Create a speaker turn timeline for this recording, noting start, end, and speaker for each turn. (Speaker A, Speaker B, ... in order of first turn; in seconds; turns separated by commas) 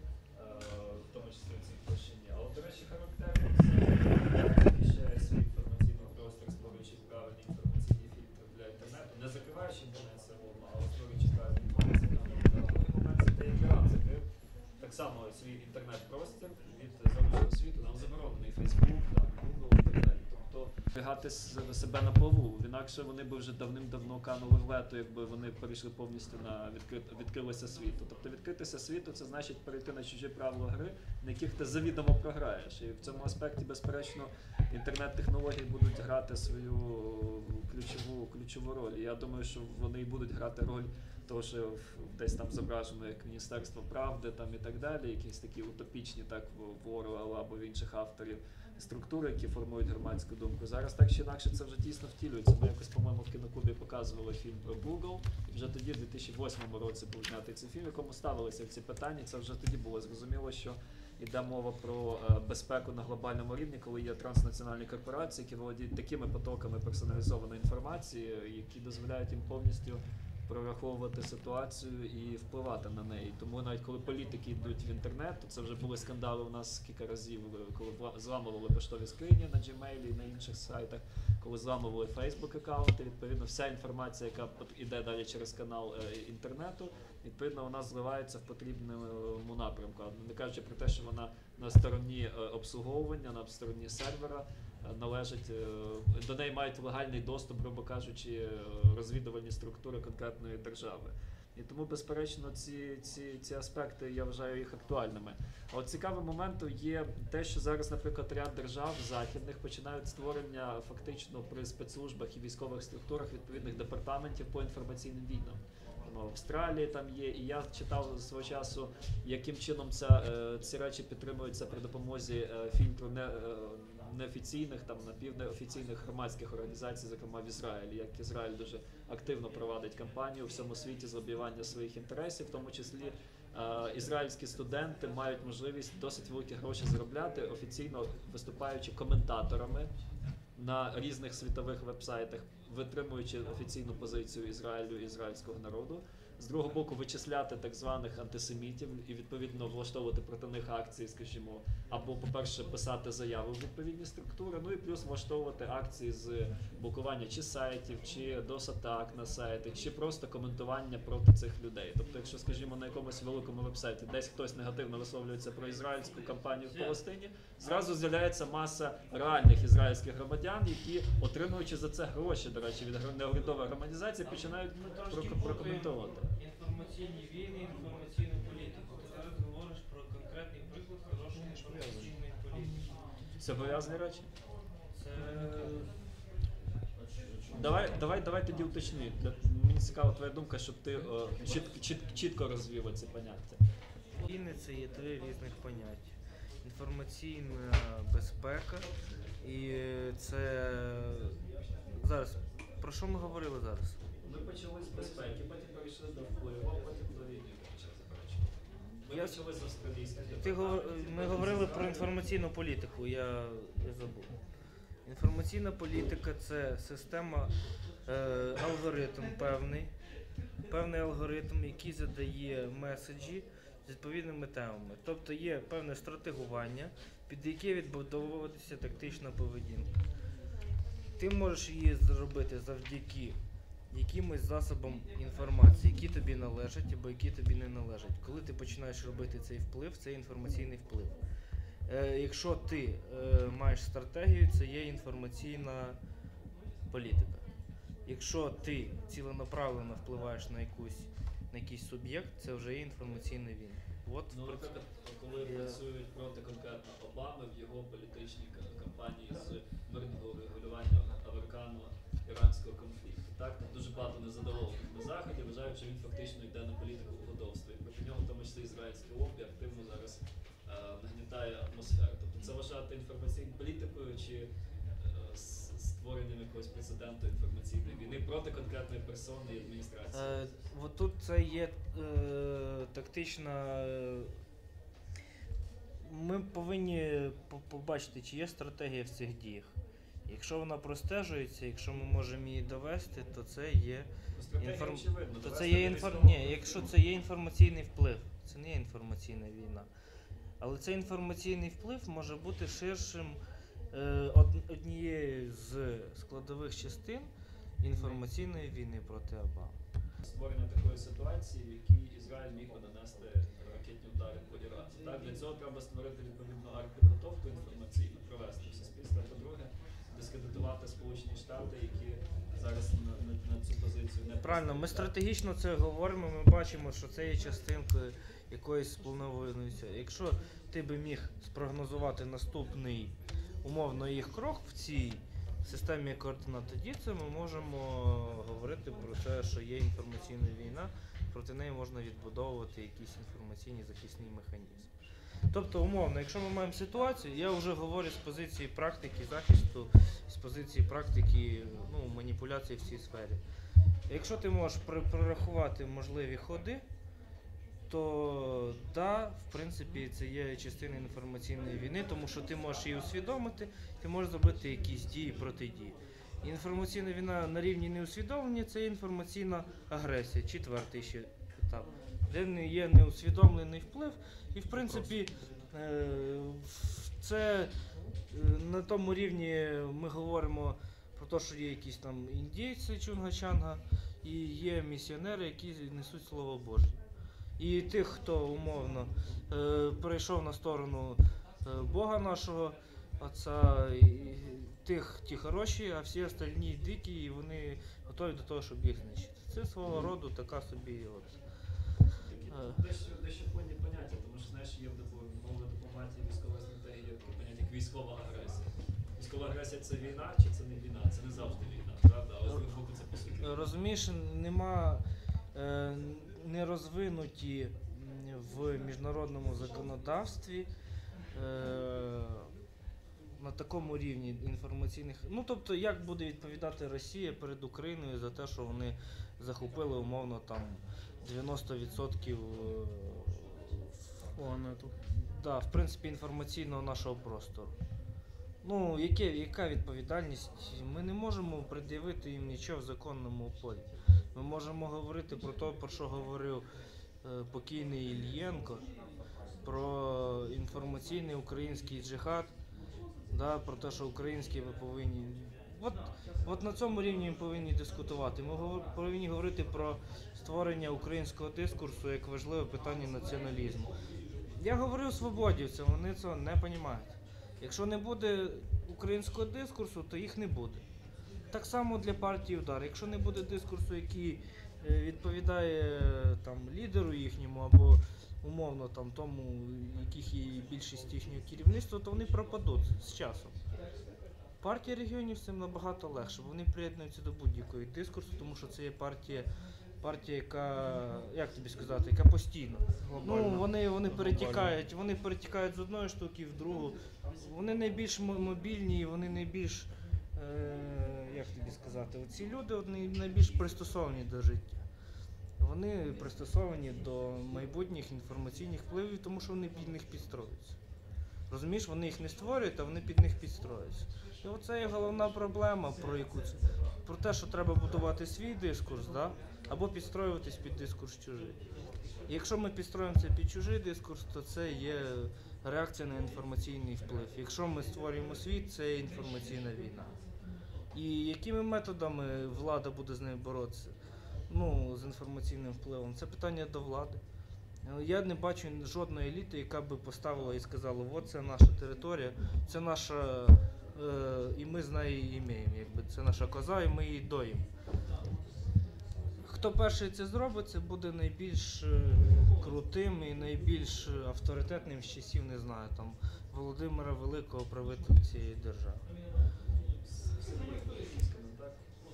Speaker A: 0.3-139.9, Speaker A: 140.6-176.3, Speaker B: 166.7-167.0, Speaker B: 174.7-183.0, Speaker A: 183.4-184.3, Speaker B: 184.9-185.9, Speaker A: 187.5-193.6, Speaker B: 194.2-198.9, Speaker B: 199.4-204.0, Speaker A: 204.2-212.1, Speaker B: 209.1-209.4, Speaker B: 210.3-214.3, Speaker B: 215.1-217.5, Speaker B: 218.1-219.9, Speaker B: 220.7-229.9, Speaker B: 231.2-233.4, Speaker B: 233.9-241.2, Speaker B: 241.9-246.0, Speaker B: 246.9-247.5, Speaker B: 248.1-254.7, Speaker A: 254.3-280.4, Speaker B: 255.4-255.8, Speaker B: 280.1-284.4, Speaker B: 286.0-299.9, Speaker A: 294.3-296.9, Speaker B: 300.6-303.4, Speaker B: 303.9-309.8, Speaker A: 307.9-308.2, Speaker A: 310.2-325.1, Speaker B: 324.4-344.9, Speaker B: 345.5-353.4, Speaker B: 354.1-356.8, Speaker B: 357.9-377.7, Speaker B: 378.3-387.0, Speaker B: 387.6-401.4, Speaker A: 402.2-413.7, Speaker B: 402.5-402.8, Speaker B: 413.4-415.0, Speaker B: 415.5-420.7, Speaker B: 421.3-422.5, Speaker B: 423.4-434.2, Speaker C: 434.4-434.9, Speaker B: 435.1-437.8, Speaker B: 438.6-446.7, Speaker B: 447.2-448.9, Speaker B: 449.6-452.5, Speaker B: 453.3-463.9, Speaker B: 464.5-470.8, Speaker B: 471.5-483.6, Speaker B: 484.6-489.5, Speaker B: 490.0-504.8, Speaker C: 493.0-494.8, Speaker B: 505.6-510.8, Speaker B: 511.5-521.6, Speaker B: 522.3-530.1, Speaker B: 530.9-534.0, Speaker B: 534.5-537.2, Speaker B: 537.8-547.7, Speaker B: 549.4-559.1, Speaker A: 559.8-561.8